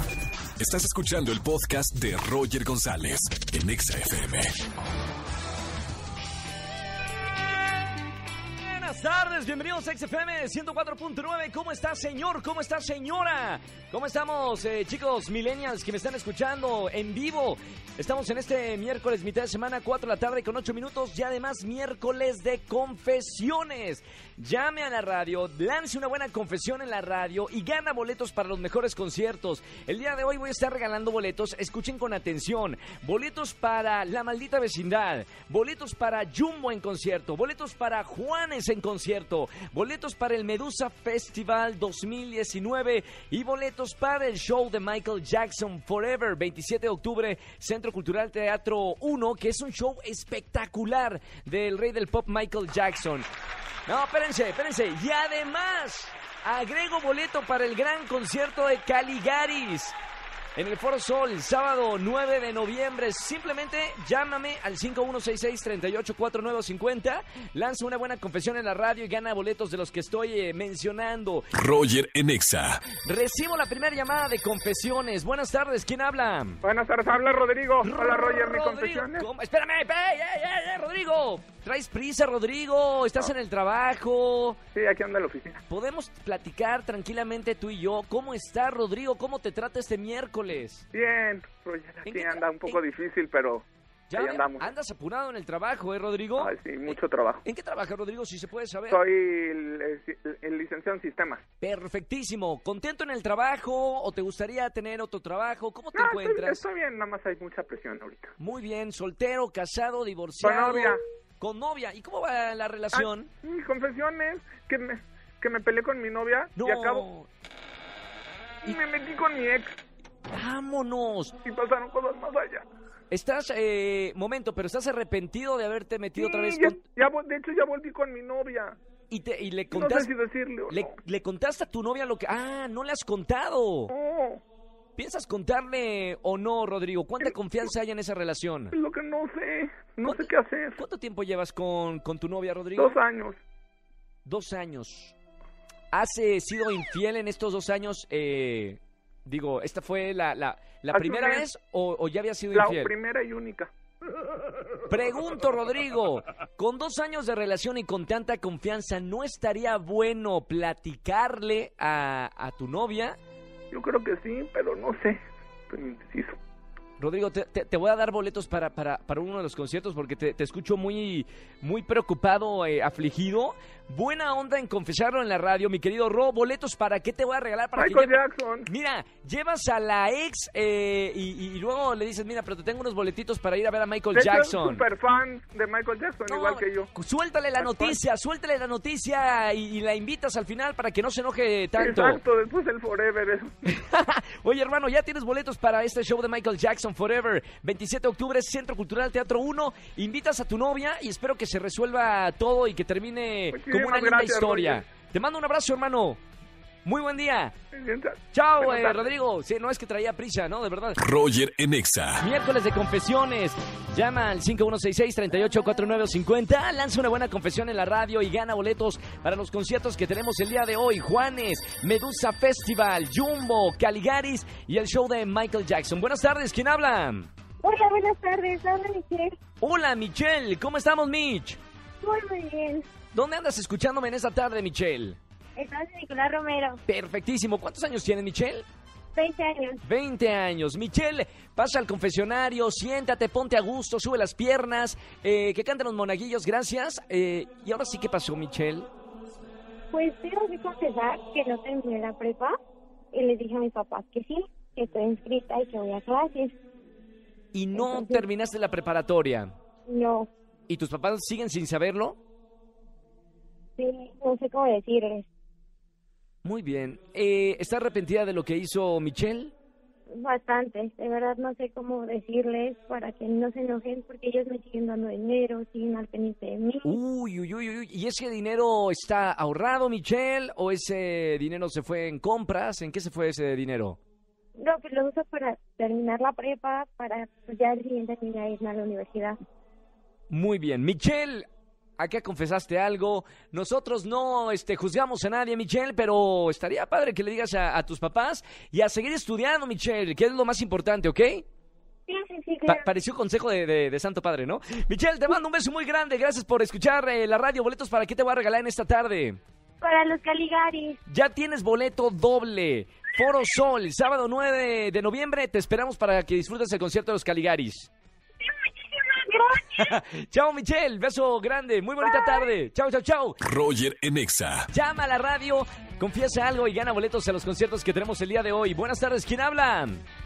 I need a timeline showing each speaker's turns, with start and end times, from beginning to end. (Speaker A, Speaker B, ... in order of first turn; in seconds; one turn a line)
Speaker A: 0.6-4.6
Speaker B: 8.6-53.3
Speaker B: 53.9-60.0
Speaker B: 60.5-71.5
Speaker A: 71.5-72.9
Speaker B: 72.9-76.6
Speaker C: 76.6-79.2
Speaker B: 77.8-84.6
Speaker C: 84.7-85.6
Speaker B: 85.7-90.8
Speaker C: 90.9-94.7
Speaker B: 92.0-92.8
Speaker B: 94.1-99.0
Speaker C: 96.4-97.4
Speaker C: 98.9-101.4
Speaker B: 101.6-106.6
Speaker C: 105.9-108.3
Speaker B: 108.4-113.3
Speaker C: 110.4-111.0
Speaker C: 112.9-117.0
Speaker B: 116.5-117.3
Speaker C: 118.6-119.7
Speaker B: 120.3-121.3
Speaker C: 121.4-122.6
Speaker B: 123.1-126.8
Speaker C: 126.2-128.8
Speaker B: 129.1-130.1
Speaker C: 129.7-130.9
Speaker B: 130.7-133.9
Speaker C: 133.9-134.4
Speaker B: 135.0-138.7
Speaker C: 138.7-140.8
Speaker B: 140.0-142.9
Speaker C: 142.8-143.4
Speaker B: 144.2-145.2
Speaker B: 145.9-152.9
Speaker C: 150.9-151.4
Speaker C: 152.5-153.7
Speaker B: 154.9-163.2
Speaker C: 163.7-166.4
Speaker B: 167.0-184.8
Speaker C: 177.8-178.7
Speaker C: 184.1-186.9
Speaker B: 186.2-192.2
Speaker C: 187.6-188.0
Speaker C: 191.8-193.5
Speaker B: 193.7-206.2
Speaker C: 203.5-204.8
Speaker B: 206.8-207.5
Speaker C: 207.7-209.0
Speaker B: 208.3-211.0
Speaker A: 211.0-212.2
Speaker B: 212.2-227.3
Speaker D: 227.6-229.3
Speaker B: 229.6-231.6
Speaker D: 232.0-232.8
Speaker B: 233.1-235.2
Speaker D: 235.6-236.8
Speaker B: 236.9-238.7
Speaker D: 239.1-239.8
Speaker B: 239.8-248.9
Speaker D: 249.9-252.5
Speaker D: 253.1-256.6
Speaker B: 257.5-259.5
Speaker D: 257.7-258.2
Speaker D: 259.9-260.3
Speaker B: 260.7-262.2
Speaker D: 263.8-265.3
Speaker B: 266.4-269.5
Speaker D: 270.1-277.0
Speaker B: 276.8-284.0
Speaker D: 284.6-289.4
Speaker B: 290.3-291.5
Speaker B: 292.0-301.4
Speaker D: 302.1-302.8
Speaker B: 302.6-309.4
Speaker D: 309.8-311.0
Speaker B: 311.1-317.9
Speaker D: 318.4-319.9
Speaker B: 319.7-323.4
Speaker D: 322.0-322.4
Speaker A: 323.4-324.7
Speaker B: 324.7-330.0